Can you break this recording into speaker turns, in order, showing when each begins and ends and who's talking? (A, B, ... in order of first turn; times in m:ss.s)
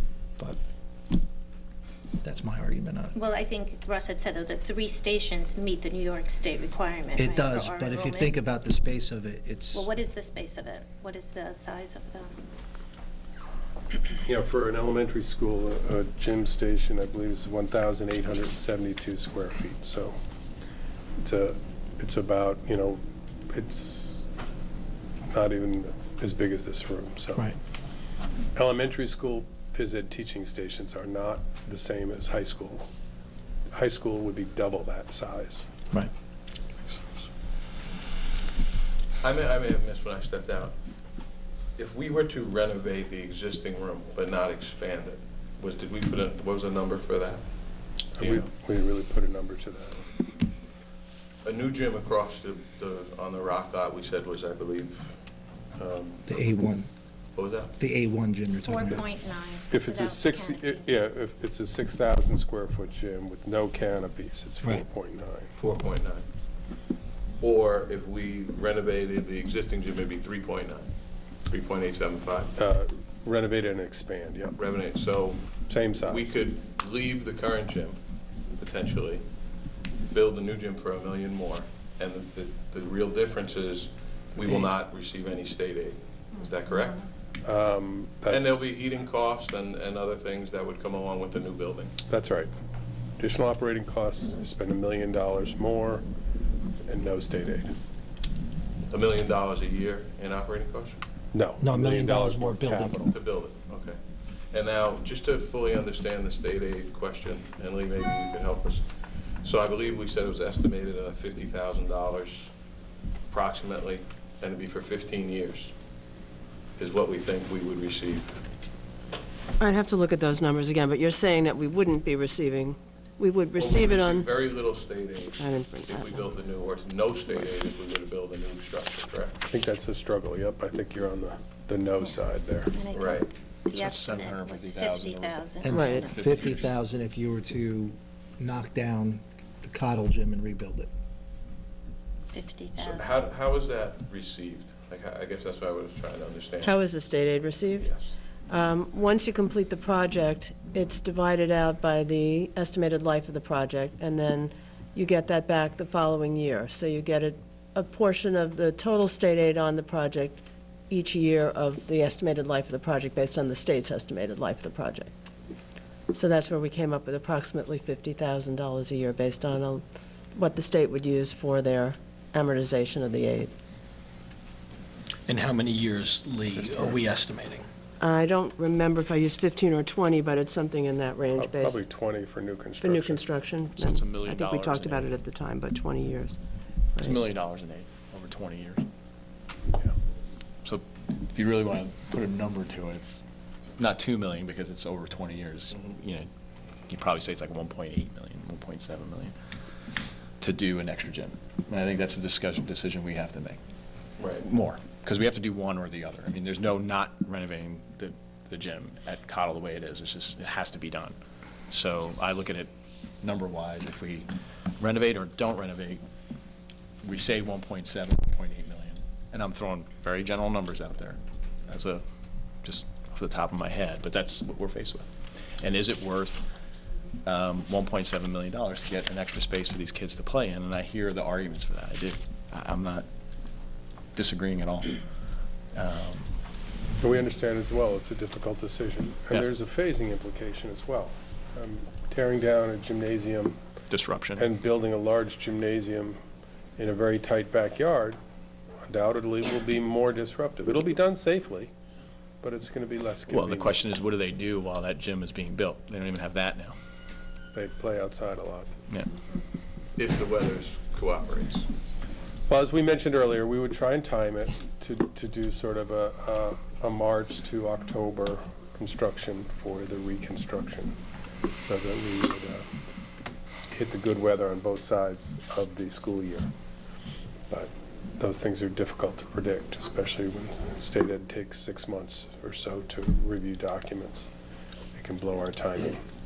0:02.2-0:03.2 A
0:03.2-0:08.3 B
0:07.2-0:09.9 A
0:09.7-0:12.4 B
0:14.2-0:20.2 C
0:21.2-0:24.2 C
0:25.3-0:27.6 C
0:28.6-0:32.9 C
0:33.7-0:35.7 C
0:39.2-0:40.8 D
0:41.8-0:47.5 D
0:48.2-0:48.5 D
0:48.2-0:50.1 C
0:51.4-0:55.2 D
0:55.8-0:56.2 D
0:56.3-0:56.9 A
0:57.4-0:57.7 D
0:57.8-0:59.1 A
0:58.6-1:00.9 B
0:59.7-1:05.6 C
1:05.6-1:06.3 D
1:07.4-1:10.9 D
1:11.5-1:12.5 D
1:12.6-1:14.6 C
1:14.6-1:18.0 D
1:15.6-1:16.4 C
1:18.5-1:19.3 D
1:20.1-1:27.1 D
1:27.4-1:28.6 C
1:28.3-1:31.9 D
1:32.1-1:32.5 C
1:33.2-1:36.1 C
1:36.8-1:37.7 C
1:38.9-1:41.0 D
1:41.3-1:43.1 C
1:41.6-1:43.0 A
1:43.1-1:52.5 D
1:53.3-1:55.7 D
1:56.8-1:58.4 D
1:59.6-2:04.3 E
2:03.6-2:09.4 D
2:05.4-2:06.2 E
2:09.4-2:12.8 C
2:12.7-2:16.2 B
2:12.9-2:13.3 D
2:13.7-2:16.7 F
2:15.6-2:20.9 A
2:15.7-2:16.1 E
2:22.3-2:23.1 B
2:22.8-2:26.8 D
2:26.6-2:27.9 E
2:27.7-2:28.1 D
2:28.5-2:45.1 E
2:46.1-2:49.8 E
2:50.3-2:53.5 E
2:55.3-2:57.6 G
2:58.0-3:01.8 E
3:01.3-3:03.3 C
3:02.8-3:06.4 E
3:03.8-3:05.1 F
3:07.0-3:08.8 F
3:10.6-3:13.2 F
3:13.8-3:16.3 F
3:16.9-3:19.3 F
3:20.4-3:23.6 F
3:24.2-3:24.4 D
3:24.4-3:31.2 F
3:31.7-3:32.7 F
3:33.2-3:34.3 F
3:34.8-3:36.0 F
3:37.0-3:42.0 F
3:42.6-3:45.1 F
3:45.6-3:46.4 F
3:47.2-3:53.1 F
3:54.2-3:55.0 F
3:55.7-3:56.3 F
3:57.0-4:03.6 C
4:03.9-4:04.5 F
4:04.4-4:06.2 C
4:06.8-4:08.2 C
4:08.9-4:11.7 C
4:12.4-4:13.8 C
4:13.3-4:16.8 F
4:17.5-4:18.7 C
4:20.0-4:21.7 D
4:22.5-4:31.0 C
4:31.6-4:32.6 C
4:33.7-4:36.5 C
4:37.5-4:44.3 C
4:45.0-4:46.0 C